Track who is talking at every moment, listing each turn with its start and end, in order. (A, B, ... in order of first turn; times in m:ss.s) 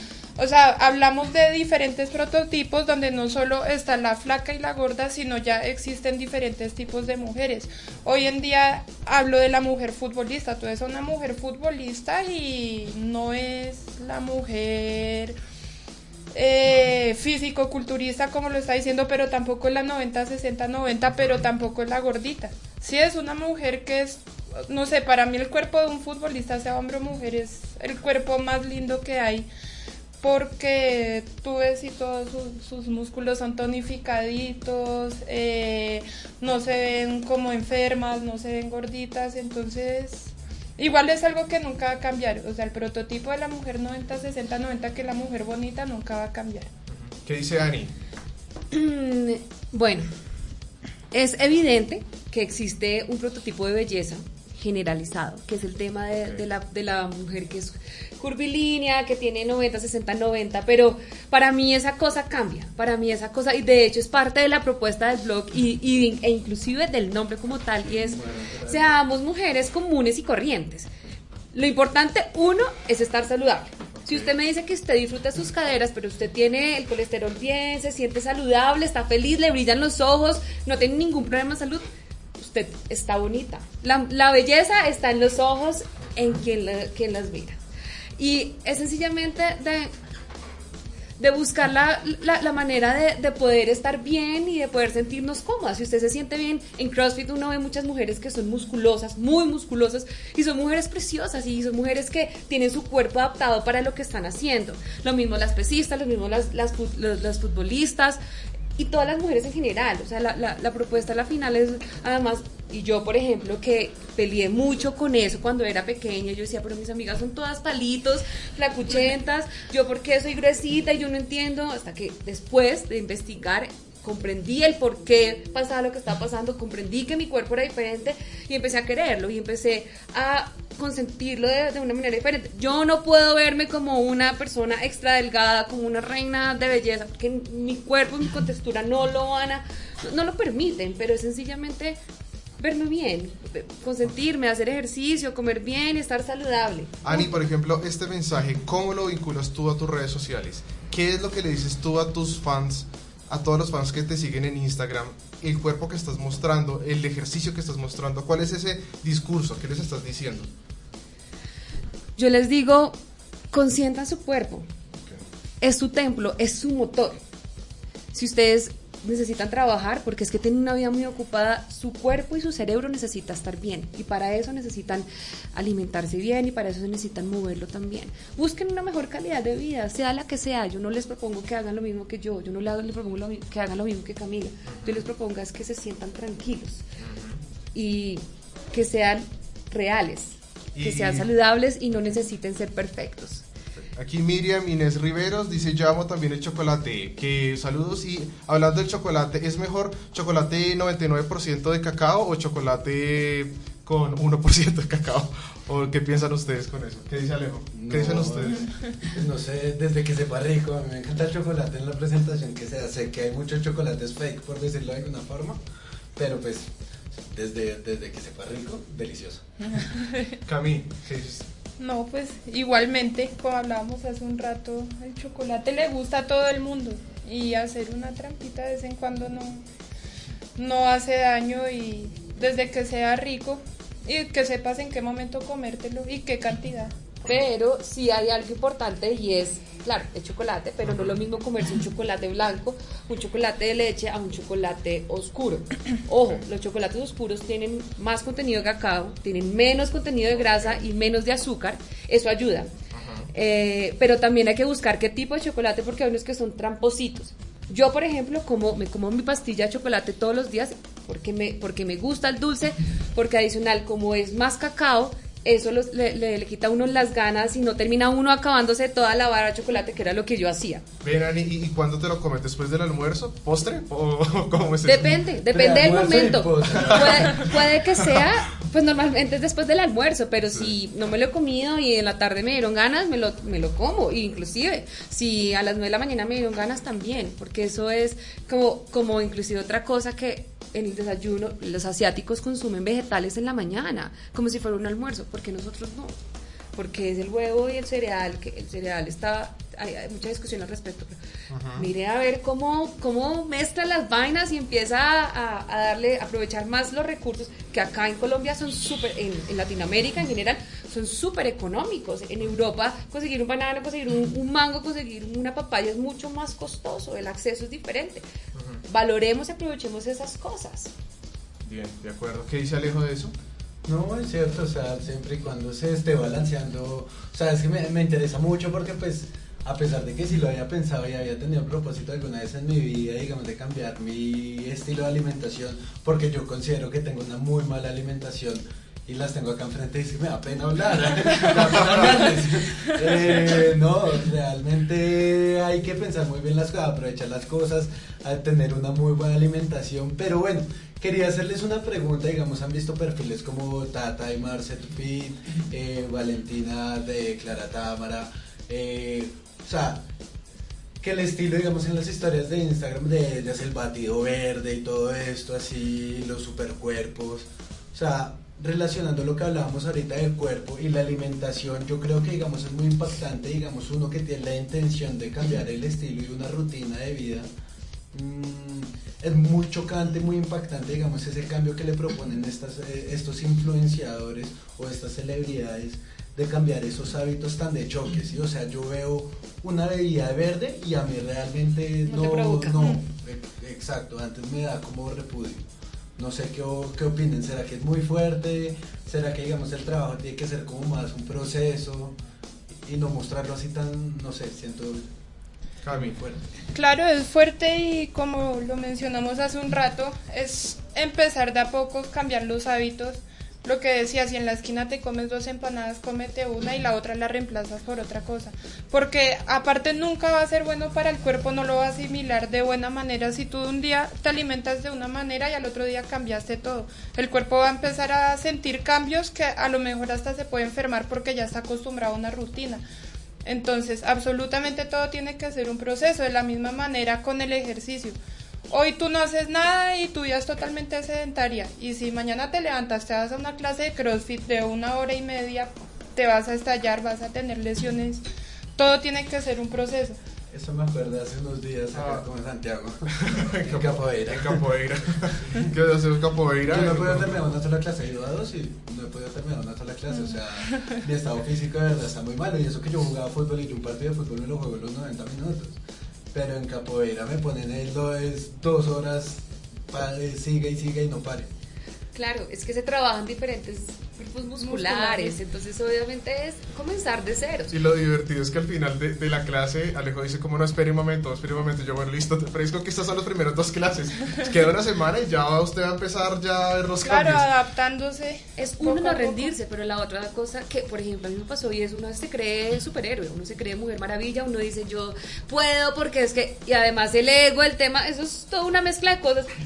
0:00.4-0:15.4 A
0:16.3-0:29.5 A
0:30.2-0:46.7 A
0:46.9-0:47.9 B
0:48.7-0:50.1 C
0:51.1-1:10.9 C
1:07.9-1:09.0 D
1:11.5-1:27.6 C
1:14.0-1:14.3 B
1:28.2-1:29.9 C
1:31.2-1:48.2 C
1:48.8-2:22.0 C
2:22.6-2:27.2 C
2:27.0-2:40.5 B
2:42.2-2:43.0 C
2:43.5-2:44.7 C
2:45.6-2:47.2 C
2:48.1-3:06.8 C
3:04.7-3:05.0 B
3:07.0-3:07.4 B
3:07.7-3:13.4 C
3:10.8-3:11.3 B
3:13.8-3:28.7 B
3:27.7-3:35.6 D
3:36.2-3:39.4 D
3:39.8-3:40.4 A
3:40.4-3:41.4 B
3:41.8-3:49.6 A
3:50.6-3:56.9 A
3:57.2-4:12.7 C
4:00.8-4:01.2 B
4:10.4-4:10.8 B
4:12.9-4:13.3 B
4:13.3-4:30.8 C
4:31.0-4:35.2 B
4:34.8-4:56.1 C
4:35.5-4:37.5 D
4:36.7-4:38.2 B
4:56.7-5:01.2 C
5:01.5-5:01.9 B
5:01.8-5:18.2 C
5:18.6-5:18.8 B
5:18.9-5:20.9 C
5:21.6-5:23.3 B
5:23.8-6:00.0 D
5:41.3-5:42.2 B
6:01.0-6:17.5 D
6:18.1-6:35.6 D
6:32.0-6:32.9 C
6:36.2-6:42.1 D
6:42.7-6:45.1 D
6:45.8-6:46.5 D
6:45.8-6:46.1 B
6:46.7-7:12.8 A
7:13.4-7:18.2 A
7:18.7-7:28.2 A
7:28.8-7:30.2 A
7:30.5-7:34.7 D
7:31.9-7:32.2 B
7:33.1-7:37.6 B
7:35.4-7:35.7 D
7:36.6-7:45.8 D
7:40.7-7:41.0 A
7:46.3-7:51.5 D
7:52.1-7:57.7 C
7:54.6-7:55.4 A
7:57.7-8:07.4 B
8:07.0-8:09.5 A
8:08.6-8:19.5 C